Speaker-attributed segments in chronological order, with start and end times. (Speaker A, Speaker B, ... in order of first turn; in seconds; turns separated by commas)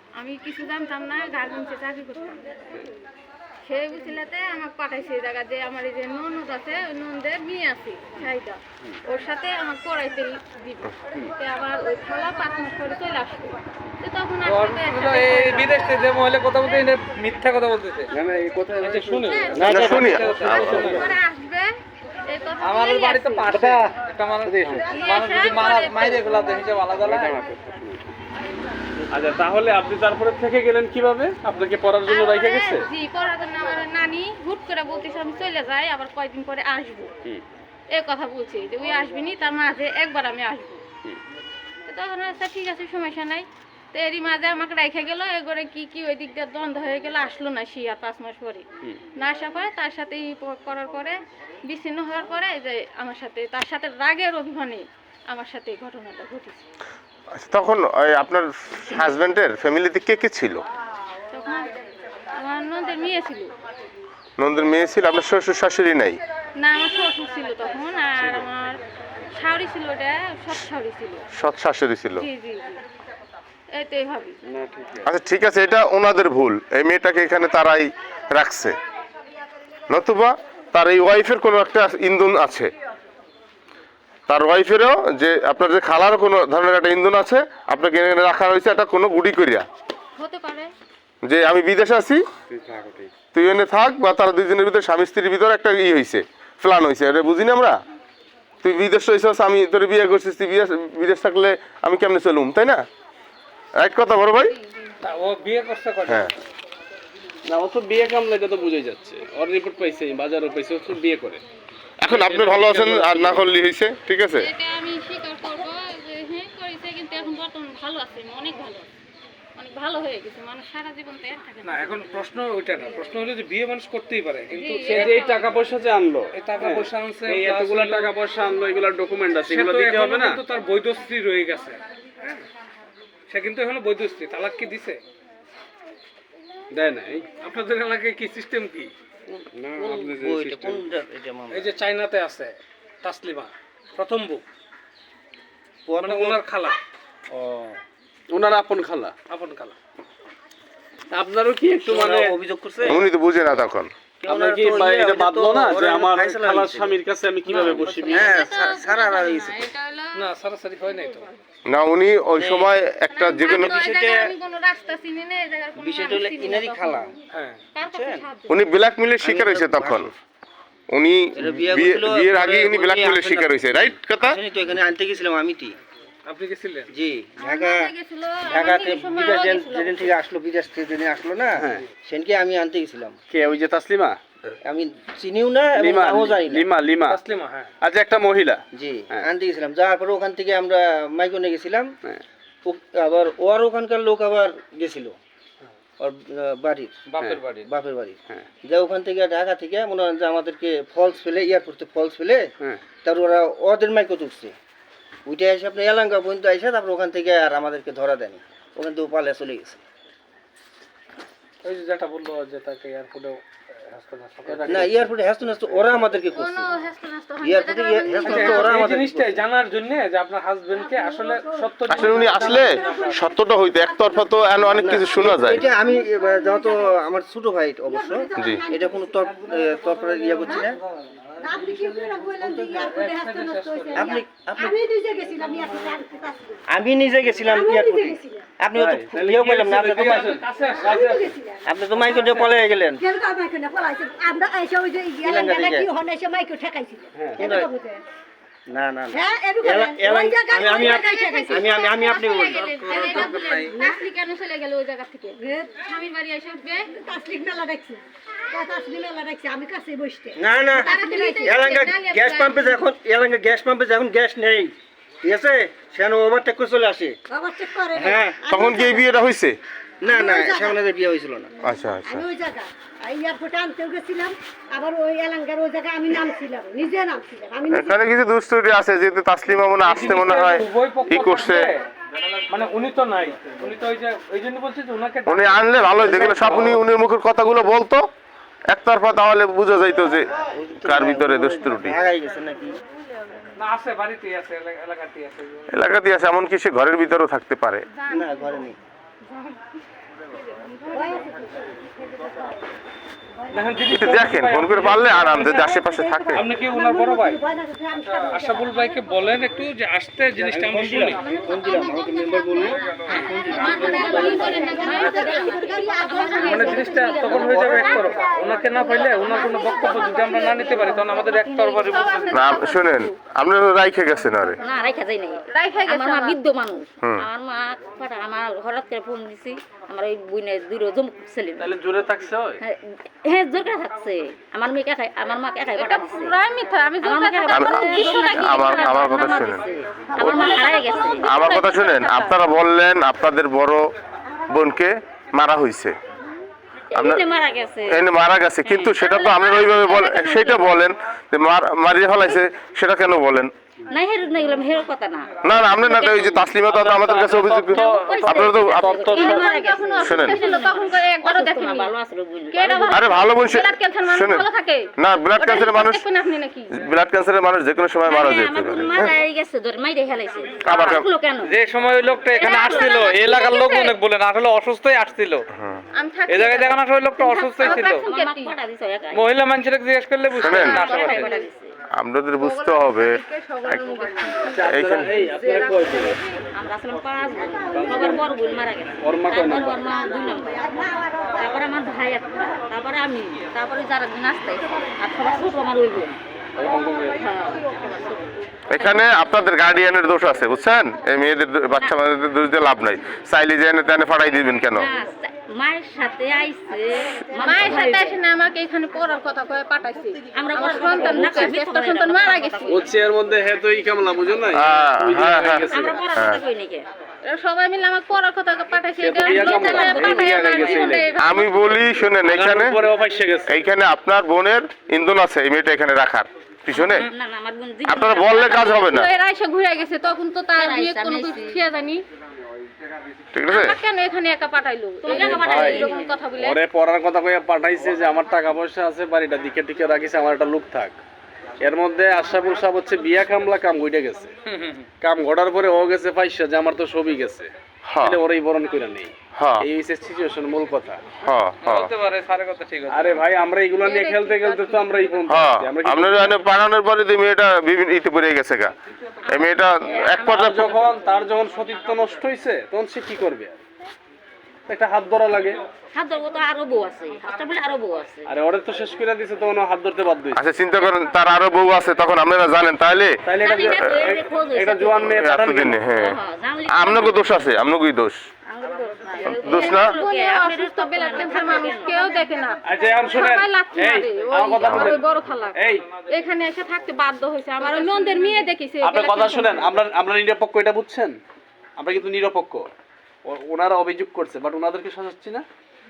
Speaker A: 0.2-2.5, Speaker A: 3.6-15.9, Speaker B: 14.4-18.1, Speaker C: 18.1-19.4, Speaker B: 18.8-21.1, Speaker A: 19.2-21.7, Speaker D: 19.5-21.1, Speaker E: 19.6-20.9, Speaker A: 22.2-23.5, Speaker B: 22.6-27.4, Speaker C: 23.5-23.9, Speaker C: 24.4-24.8, Speaker A: 24.9-26.7, Speaker C: 27.0-28.0, Speaker C: 29.1-32.9, Speaker A: 32.1-37.1, Speaker A: 37.9-40.8, Speaker A: 41.9-56.6, Speaker E: 57.3-60.6, Speaker A: 61.3-61.7, Speaker A: 62.3-63.5, Speaker E: 64.4-66.2, Speaker A: 66.5-68.8, Speaker A: 69.3-71.2, Speaker E: 71.3-72.2, Speaker A: 72.2-72.8, Speaker A: 73.7-74.3, Speaker C: 74.5-75.1, Speaker E: 75.0-78.8, Speaker E: 79.9-82.7, Speaker E: 84.3-89.6, Speaker A: 90.2-90.7, Speaker E: 91.2-92.2, Speaker C: 92.5-93.2, Speaker E: 93.2-97.8, Speaker E: 98.6-102.8, Speaker E: 103.8-104.5, Speaker B: 105.0-106.3, Speaker E: 106.0-106.3, Speaker C: 107.5-111.4, Speaker E: 112.0-114.5, Speaker C: 112.1-113.5, Speaker A: 114.3-118.9, Speaker A: 119.6-121.8, Speaker B: 121.6-125.3, Speaker A: 124.5-125.4, Speaker C: 124.9-130.4, Speaker B: 126.3-128.1, Speaker B: 129.5-131.8, Speaker B: 133.3-135.0, Speaker C: 136.7-137.3, Speaker B: 137.4-138.9, Speaker D: 139.3-141.7, Speaker C: 139.5-140.8, Speaker B: 141.5-144.4, Speaker D: 145.9-146.4, Speaker B: 146.0-146.7, Speaker D: 147.3-147.8, Speaker C: 148.3-149.1, Speaker B: 149.3-149.7, Speaker C: 151.1-152.3, Speaker D: 151.8-153.1, Speaker E: 152.8-153.9, Speaker D: 154.2-157.0, Speaker C: 154.3-158.4, Speaker D: 157.5-159.6, Speaker A: 157.8-160.2, Speaker B: 160.2-161.2, Speaker A: 160.8-161.4, Speaker E: 161.7-163.8, Speaker D: 162.3-162.7, Speaker A: 163.1-167.1, Speaker D: 163.4-164.3, Speaker D: 165.8-167.1, Speaker B: 167.3-167.6, Speaker A: 167.7-168.6, Speaker D: 167.8-168.2, Speaker E: 168.5-170.1, Speaker D: 169.2-170.1, Speaker E: 170.9-174.4, Speaker D: 171.3-175.8, Speaker B: 176.2-176.9, Speaker D: 176.9-177.9, Speaker A: 177.4-180.1, Speaker D: 178.4-183.2, Speaker C: 181.6-181.8, Speaker C: 183.3-184.2, Speaker D: 184.7-186.7, Speaker C: 185.8-187.2, Speaker B: 187.1-187.7, Speaker C: 187.8-189.3, Speaker D: 188.7-191.9, Speaker D: 192.6-195.2, Speaker D: 196.0-196.9, Speaker B: 197.1-197.7, Speaker D: 197.6-202.5, Speaker D: 203.0-204.5, Speaker D: 205.2-209.8, Speaker B: 211.6-214.9, Speaker C: 214.4-215.1, Speaker D: 214.7-216.7, Speaker C: 215.7-216.0, Speaker A: 216.3-218.9, Speaker D: 217.4-219.4, Speaker B: 218.2-223.2, Speaker F: 220.8-226.9, Speaker E: 221.9-225.6, Speaker D: 224.7-230.8, Speaker F: 227.9-230.7, Speaker E: 228.4-228.6, Speaker F: 231.4-236.6, Speaker B: 232.4-234.1, Speaker D: 233.9-234.7, Speaker D: 236.7-240.4, Speaker F: 237.5-238.4, Speaker C: 238.7-240.4, Speaker B: 239.5-241.3, Speaker F: 240.7-242.2, Speaker D: 241.7-243.0, Speaker F: 243.0-248.0, Speaker D: 245.2-245.9, Speaker C: 247.1-247.6, Speaker D: 247.4-247.7, Speaker D: 248.7-252.8, Speaker F: 249.1-251.9, Speaker A: 250.8-256.9, Speaker F: 252.9-254.0, Speaker B: 252.9-253.7, Speaker F: 255.4-255.7, Speaker F: 256.9-258.0, Speaker F: 258.5-261.6, Speaker D: 260.4-267.2, Speaker A: 260.8-262.8, Speaker F: 267.3-269.0, Speaker D: 267.9-268.4, Speaker E: 268.5-269.6, Speaker D: 270.0-271.5, Speaker F: 270.1-270.8, Speaker E: 271.6-272.2, Speaker F: 272.0-278.0, Speaker E: 277.7-281.7, Speaker B: 279.8-281.8, Speaker B: 282.5-286.6, Speaker E: 285.2-288.0, Speaker D: 286.0-286.8, Speaker E: 288.7-290.3, Speaker D: 290.5-292.8, Speaker E: 290.8-292.0, Speaker B: 293.6-295.6, Speaker E: 295.7-297.8, Speaker A: 297.9-298.5, Speaker D: 298.1-298.8, Speaker A: 299.2-299.6, Speaker A: 300.6-301.2, Speaker F: 300.9-302.6, Speaker B: 303.5-305.6, Speaker E: 303.9-306.4, Speaker F: 305.5-308.9, Speaker B: 306.3-307.4, Speaker B: 308.1-311.2, Speaker D: 310.4-314.5, Speaker G: 313.1-318.1, Speaker A: 313.6-316.8, Speaker F: 313.7-318.0, Speaker B: 316.4-322.4, Speaker F: 318.8-319.1, Speaker G: 318.9-322.0, Speaker A: 319.4-320.0, Speaker A: 321.8-323.1, Speaker E: 322.3-324.6, Speaker G: 324.6-331.7, Speaker A: 325.5-326.4, Speaker C: 331.6-332.6, Speaker G: 332.6-336.3, Speaker A: 335.8-339.2, Speaker G: 337.0-341.3, Speaker E: 337.5-339.6, Speaker A: 340.1-342.4, Speaker E: 341.2-343.8, Speaker E: 344.5-345.9, Speaker G: 346.9-348.0, Speaker E: 346.9-347.2, Speaker E: 347.9-353.5, Speaker G: 348.6-349.1, Speaker A: 349.0-350.7, Speaker G: 353.9-356.5, Speaker E: 355.4-358.9, Speaker B: 356.6-359.4, Speaker G: 357.7-363.1, Speaker A: 359.0-361.9, Speaker E: 360.0-360.4, Speaker A: 362.5-366.8, Speaker E: 362.9-364.4, Speaker E: 365.0-366.0, Speaker E: 366.7-369.1, Speaker G: 368.0-371.5, Speaker E: 370.6-371.1, Speaker B: 371.4-375.4, Speaker A: 372.3-374.0, Speaker E: 375.5-375.8, Speaker A: 375.9-378.6, Speaker B: 376.3-378.0, Speaker G: 377.6-379.3, Speaker B: 379.1-381.3, Speaker A: 380.3-381.5, Speaker E: 380.4-380.8, Speaker G: 380.6-381.7, Speaker E: 382.0-383.1, Speaker A: 382.4-386.2, Speaker E: 383.7-384.0, Speaker C: 384.5-386.2, Speaker E: 384.6-385.2, Speaker G: 386.4-396.2, Speaker F: 387.5-387.9, Speaker C: 387.9-388.2, Speaker C: 389.0-389.8, Speaker F: 390.5-391.5, Speaker C: 396.6-397.2, Speaker G: 397.2-399.1, Speaker E: 398.7-404.9, Speaker G: 401.7-401.9, Speaker G: 404.7-408.2, Speaker A: 407.4-412.8, Speaker G: 410.3-412.9, Speaker C: 412.7-416.0, Speaker E: 414.5-416.4, Speaker G: 415.6-416.9, Speaker A: 417.2-421.7, Speaker C: 419.0-421.2, Speaker G: 419.2-421.0, Speaker E: 421.2-422.8, Speaker C: 422.2-423.5, Speaker E: 423.5-427.1, Speaker G: 426.7-428.8, Speaker E: 427.9-429.1, Speaker A: 428.3-432.0, Speaker G: 430.6-431.6, Speaker E: 433.3-433.8, Speaker A: 433.5-436.6, Speaker G: 435.0-436.1, Speaker C: 435.1-441.0, Speaker C: 441.6-444.3, Speaker B: 444.5-444.9, Speaker C: 445.0-451.1, Speaker E: 447.8-448.2, Speaker E: 449.4-449.6, Speaker E: 451.2-451.9, Speaker B: 451.6-453.2, Speaker C: 452.9-456.4, Speaker A: 453.8-455.2, Speaker E: 455.2-458.7, Speaker E: 459.2-460.7, Speaker G: 459.9-461.1, Speaker C: 460.3-463.6, Speaker C: 464.7-465.6, Speaker G: 465.9-468.3, Speaker C: 468.3-470.4, Speaker E: 470.3-473.2, Speaker C: 473.2-475.8, Speaker G: 473.4-475.1, Speaker E: 475.0-476.2, Speaker G: 475.9-477.3, Speaker E: 476.7-478.2, Speaker G: 478.5-482.1, Speaker E: 479.2-479.9, Speaker A: 479.4-489.7, Speaker C: 482.6-485.0, Speaker E: 484.6-485.0, Speaker C: 485.5-485.9, Speaker G: 487.6-488.4, Speaker C: 488.8-491.2, Speaker C: 491.8-492.7, Speaker C: 493.2-495.4